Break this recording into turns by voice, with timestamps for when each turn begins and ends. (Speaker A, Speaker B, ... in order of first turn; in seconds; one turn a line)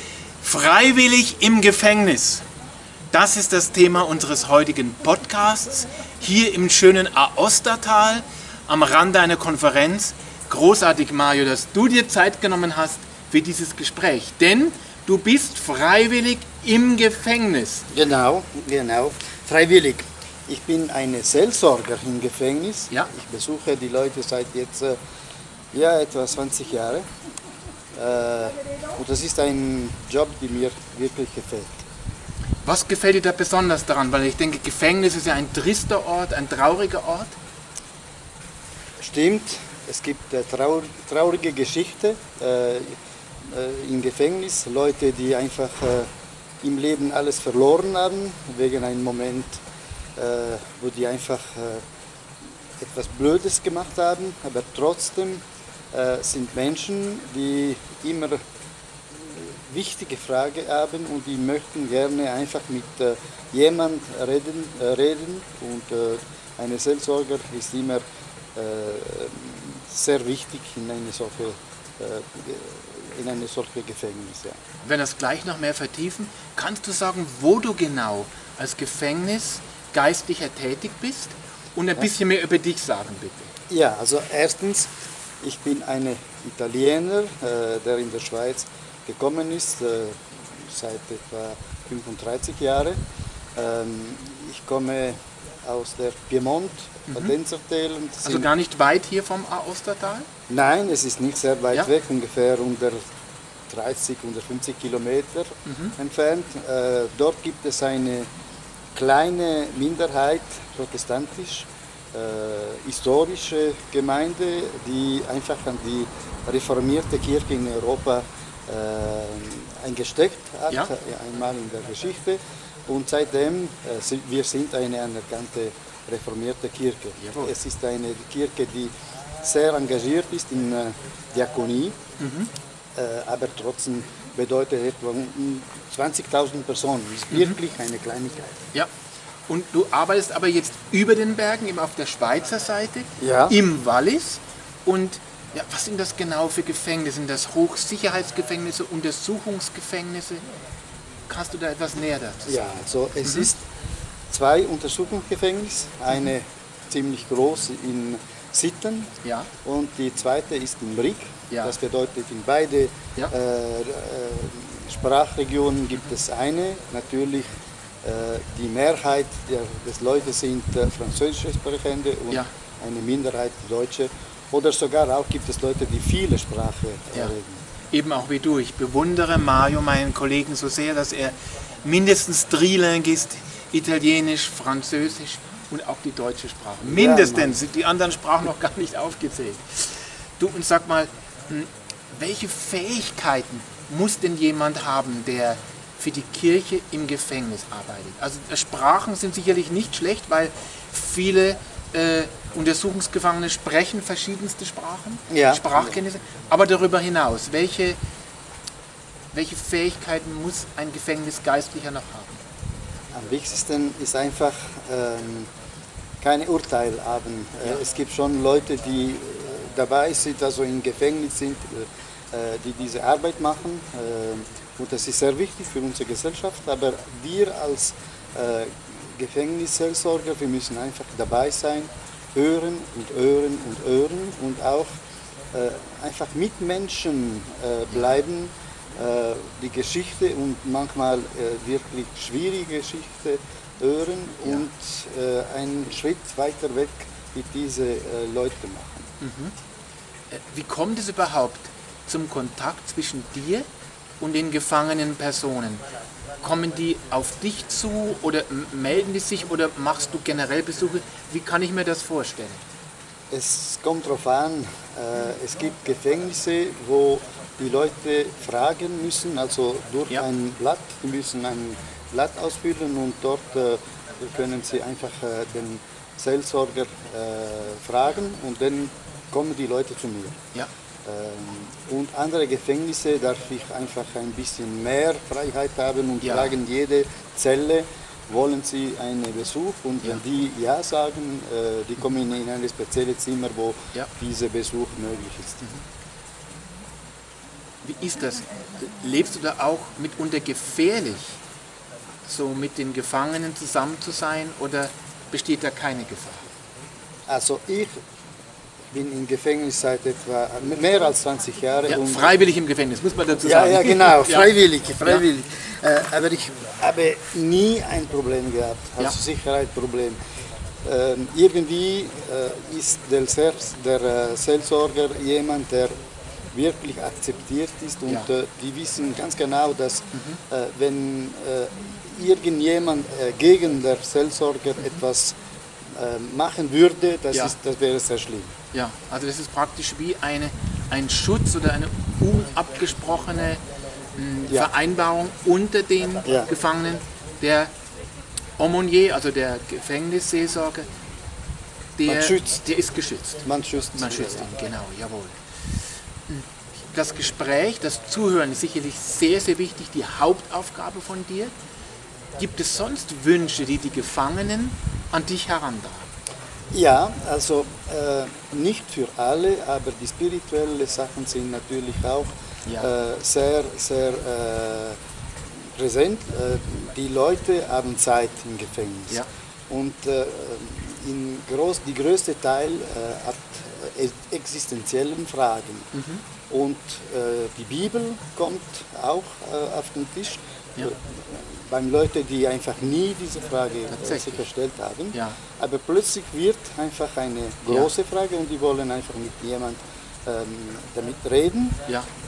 Speaker A: 0.4-2.4
Speaker A: 3.1-17.9
Speaker B: 17.9-25.0
Speaker B: 25.7-27.0
Speaker B: 27.9-31.8
Speaker A: 32.6-37.3
Speaker B: 39.0-46.1
Speaker B: 46.6-49.6
Speaker B: 50.1-51.8
Speaker B: 52.8-58.4
Speaker B: 59.2-68.0
Speaker B: 68.5-74.6
Speaker A: 74.8-83.5
Speaker B: 83.7-84.9
Speaker B: 85.4-93.0
Speaker B: 93.5-98.5
Speaker A: 97.1-97.3
Speaker A: 98.2-100.3
Speaker B: 100.5-103.1
Speaker B: 103.7-108.3
Speaker A: 105.7-105.9
Speaker B: 108.9-128.9
Speaker A: 127.2-127.5
Speaker B: 129.4-131.9
Speaker A: 132.2-132.5
Speaker B: 133.0-138.6
Speaker A: 137.3-137.6
Speaker A: 139.5-150.4
Speaker B: 143.2-143.6
Speaker A: 151.3-152.6
Speaker B: 152.5-153.6
Speaker A: 153.2-153.5
Speaker B: 154.3-159.1
Speaker A: 159.2-159.5
Speaker B: 159.6-167.4
Speaker B: 168.0-177.6
Speaker A: 177.9-208.0
Speaker B: 186.8-187.5
Speaker B: 205.3-206.0
Speaker A: 209.3-212.4
Speaker B: 213.1-215.5
Speaker B: 216.2-234.9
Speaker B: 235.5-249.1
Speaker A: 249.2-249.5
Speaker A: 250.3-253.6
Speaker A: 254.2-255.8
Speaker A: 256.4-262.6
Speaker B: 263.3-280.4
Speaker B: 281.0-295.7
Speaker A: 286.2-286.5
Speaker A: 297.8-301.4
Speaker A: 302.2-306.5
Speaker B: 307.3-307.9
Speaker B: 308.9-312.3
Speaker A: 311.9-314.5
Speaker B: 313.4-320.2
Speaker B: 320.8-325.9
Speaker B: 326.5-335.3
Speaker A: 330.1-330.4
Speaker B: 335.9-338.5
Speaker A: 338.7-343.6
Speaker A: 344.1-347.7
Speaker A: 348.6-350.9
Speaker A: 352.0-353.4
Speaker B: 352.1-352.6
Speaker B: 353.4-354.5
Speaker A: 353.9-355.3
Speaker A: 356.3-361.5
Speaker A: 362.4-366.1
Speaker B: 366.7-375.0
Speaker B: 375.8-385.9
Speaker A: 385.9-386.2
Speaker B: 386.5-401.8
Speaker A: 393.9-394.4
Speaker A: 395.1-395.4